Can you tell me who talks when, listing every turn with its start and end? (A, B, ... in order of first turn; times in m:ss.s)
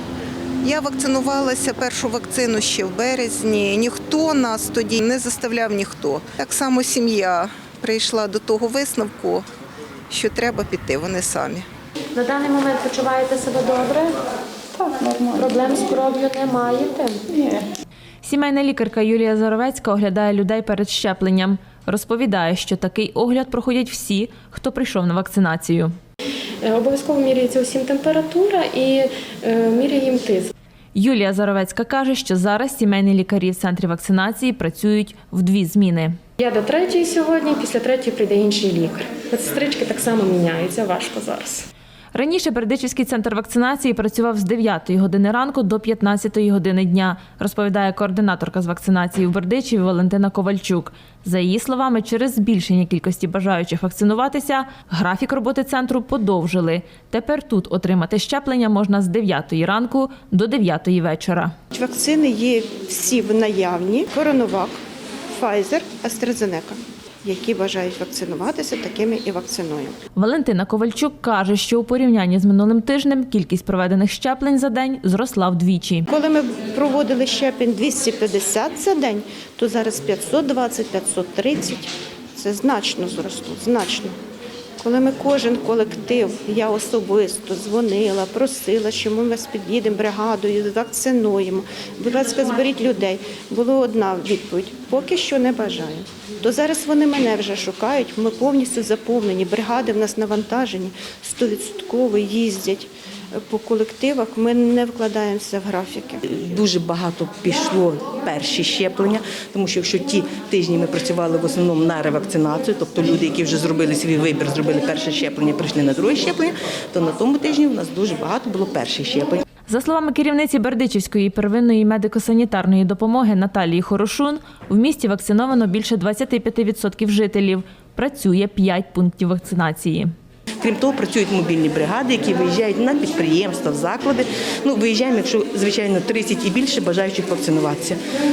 0:00.6-0:09.4 A
0:10.1-0:11.6 A
0:12.1-0:14.1 B
0:14.8-0:17.2 B
0:18.2-0:25.9 C
0:26.6-0:30.5 B
0:30.9-0:36.2 C
0:36.4-0:41.6 B
0:42.1-1:01.5 C
1:01.7-1:04.8 D
1:05.3-1:10.0 D
1:10.1-1:16.0 C
1:16.1-1:24.1 D
1:24.8-1:46.2 D
1:46.2-1:59.4 E
1:59.7-2:10.1 C
2:10.6-2:18.0 E